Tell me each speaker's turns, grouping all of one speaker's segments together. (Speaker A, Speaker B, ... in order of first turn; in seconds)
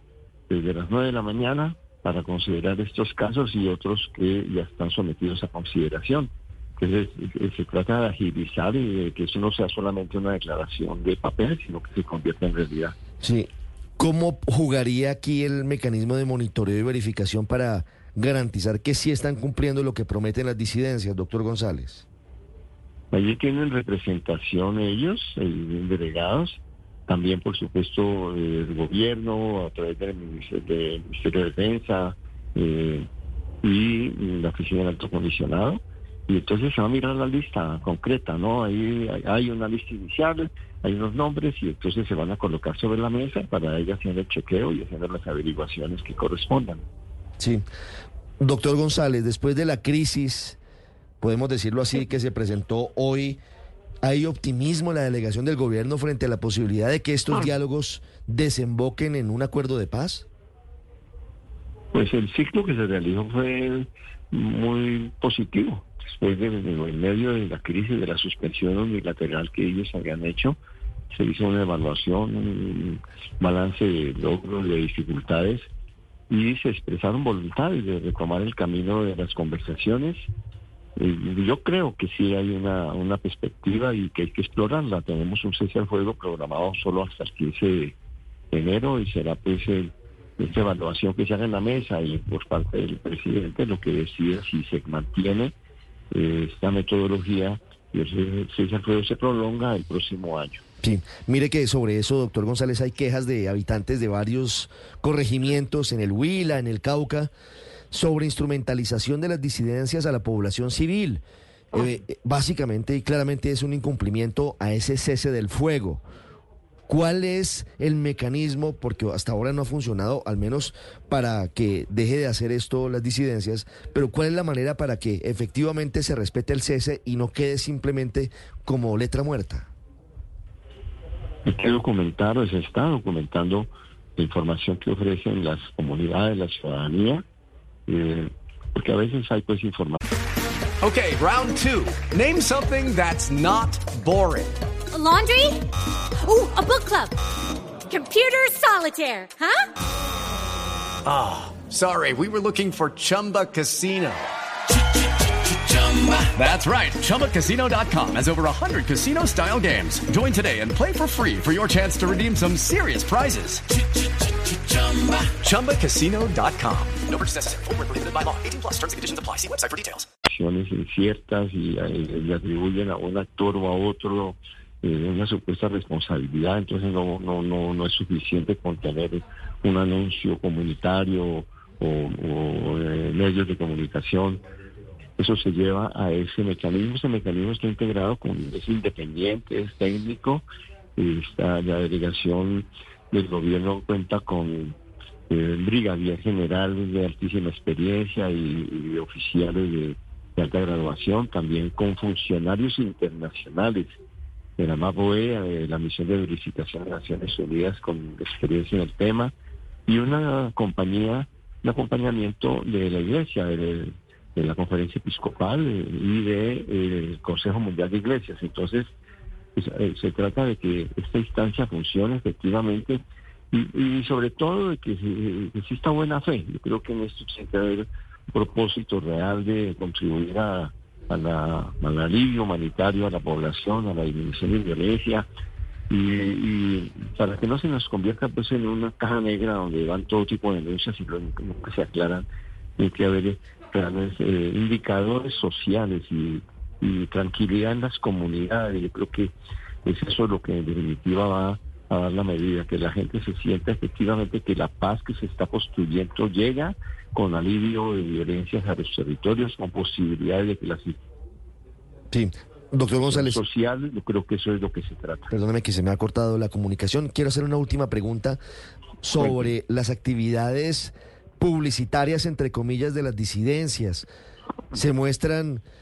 Speaker A: 0.5-12.9, 23.1-33.1, 33.6-46.9, 61.9-70.6, 71.1-75.7, 76.3-80.3, 81.0-88.0, 88.5-95.5, 96.1-100.6, 131.5-137.2, 137.9-140.0, 170.3-184.4, 185.2-190.4, 191.0-194.8, 195.3-204.0, 204.6-209.3, 209.9-218.9, 219.6-223.0, 223.5-235.3, 235.9-242.3, 242.8-249.3, 249.8-261.0, 263.1-265.3, 269.2-269.5
Speaker B: 13.2-22.1, 47.4-47.6, 48.4-50.6, 51.2-53.4, 54.0-60.3, 100.8-107.3, 107.9-116.0, 116.9-129.7, 262.1-263.4, 265.3-268.4, 269.0-274.1, 274.7-275.6
Speaker C: 140.8-144.6, 151.1-154.3, 155.4-167.0
Speaker D: 144.9-145.6, 146.2-147.2, 147.9-149.7
Speaker E: 167.1-170.1